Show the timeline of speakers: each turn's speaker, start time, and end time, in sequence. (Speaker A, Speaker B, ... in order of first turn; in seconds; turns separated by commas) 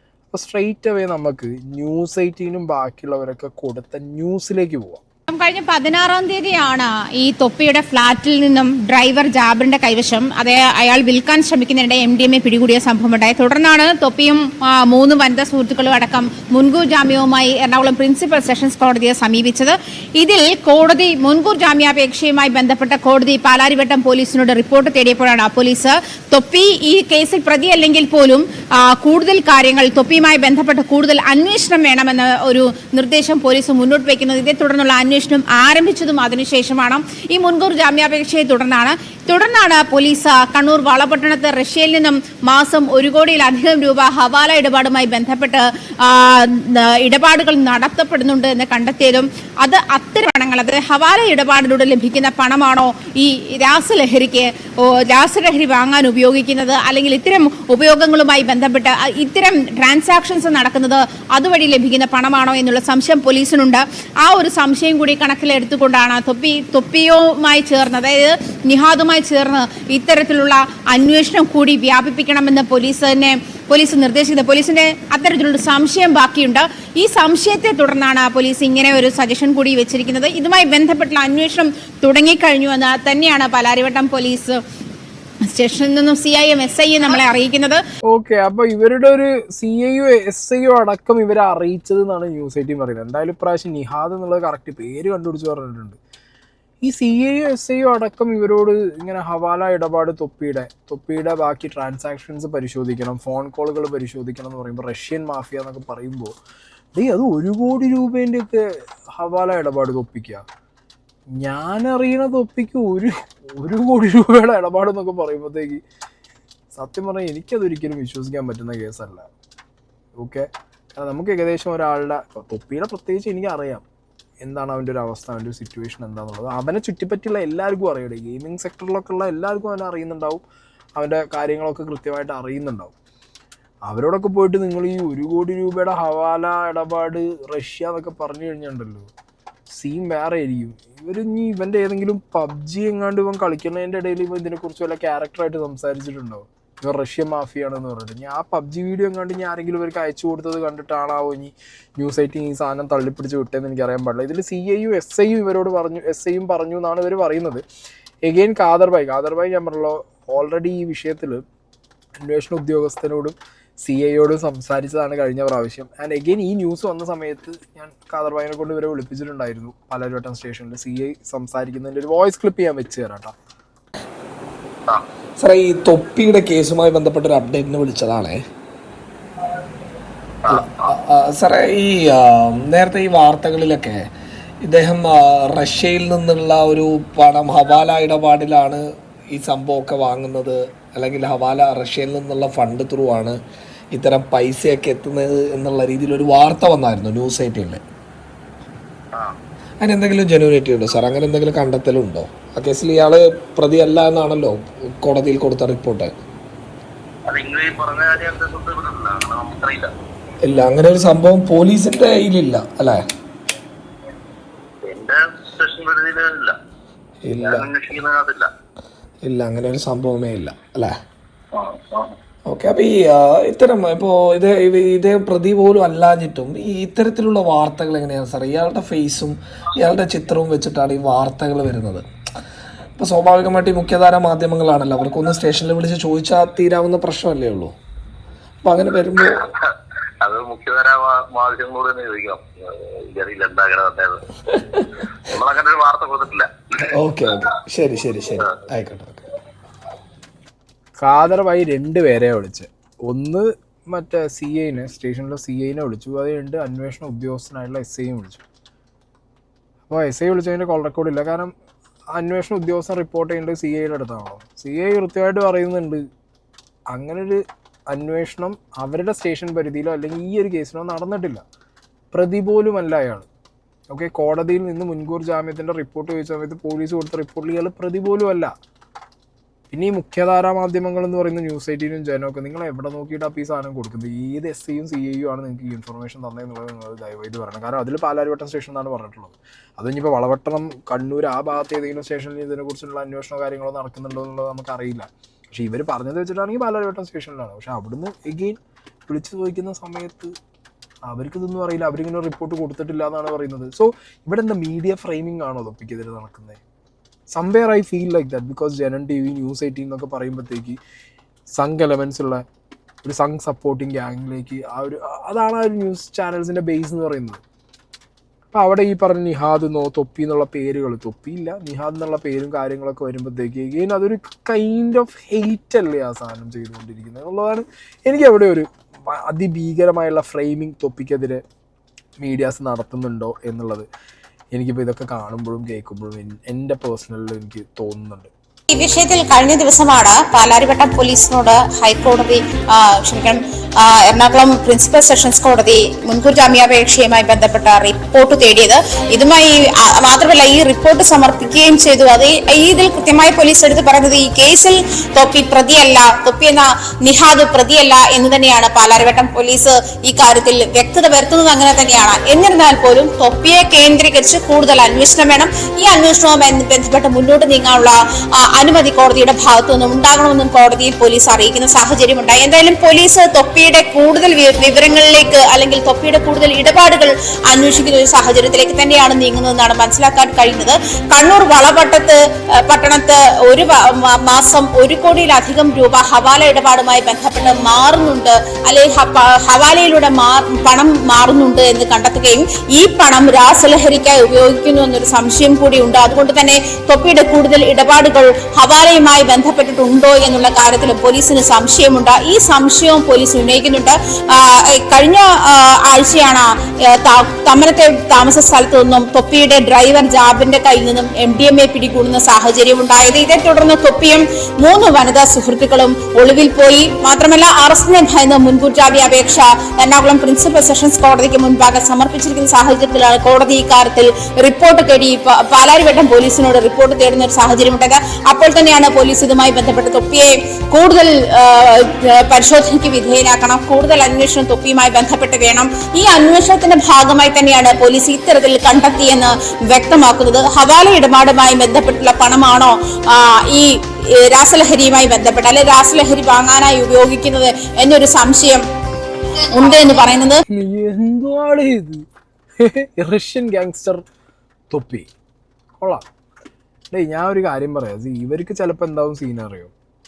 Speaker A: 0.3-5.0, Speaker B: 5.3-84.6, Speaker B: 85.5-87.8, Speaker A: 88.1-96.0, Speaker A: 96.8-106.3, Speaker A: 107.0-110.4, Speaker A: 111.4-115.8, Speaker A: 116.7-119.3, Speaker A: 120.2-123.8, Speaker A: 124.4-130.4, Speaker A: 131.0-132.9, Speaker A: 133.9-139.1, Speaker A: 139.7-157.6, Speaker A: 158.2-161.4, Speaker A: 162.2-173.3, Speaker C: 175.4-178.4, Speaker D: 180.5-180.8, Speaker C: 180.5-184.0, Speaker C: 184.6-193.4, Speaker C: 193.9-197.8, Speaker C: 199.8-206.1, Speaker D: 207.3-209.9, Speaker C: 210.4-213.0, Speaker D: 214.8-216.6, Speaker C: 217.2-217.7, Speaker D: 217.4-218.5, Speaker C: 219.2-220.9, Speaker D: 221.5-222.1, Speaker C: 222.5-232.0, Speaker C: 233.0-237.7, Speaker C: 238.6-239.4, Speaker D: 239.2-239.7, Speaker D: 240.2-244.2, Speaker C: 244.5-244.8, Speaker D: 245.2-246.5, Speaker C: 246.8-249.2, Speaker A: 251.0-258.4, Speaker A: 259.9-261.5, Speaker A: 262.1-266.0, Speaker A: 266.9-271.4, Speaker A: 272.1-273.3, Speaker A: 273.9-278.5, Speaker A: 279.7-300.3, Speaker A: 301.1-306.6, Speaker A: 307.3-310.8, Speaker A: 311.6-312.4, Speaker A: 313.0-317.4, Speaker A: 318.5-331.4, Speaker A: 332.2-333.9, Speaker A: 334.5-338.3, Speaker B: 338.7-448.6, Speaker B: 449.5-450.4, Speaker A: 450.5-452.0, Speaker A: 452.6-454.0, Speaker A: 454.7-455.1, Speaker A: 455.8-456.0, Speaker A: 456.9-459.7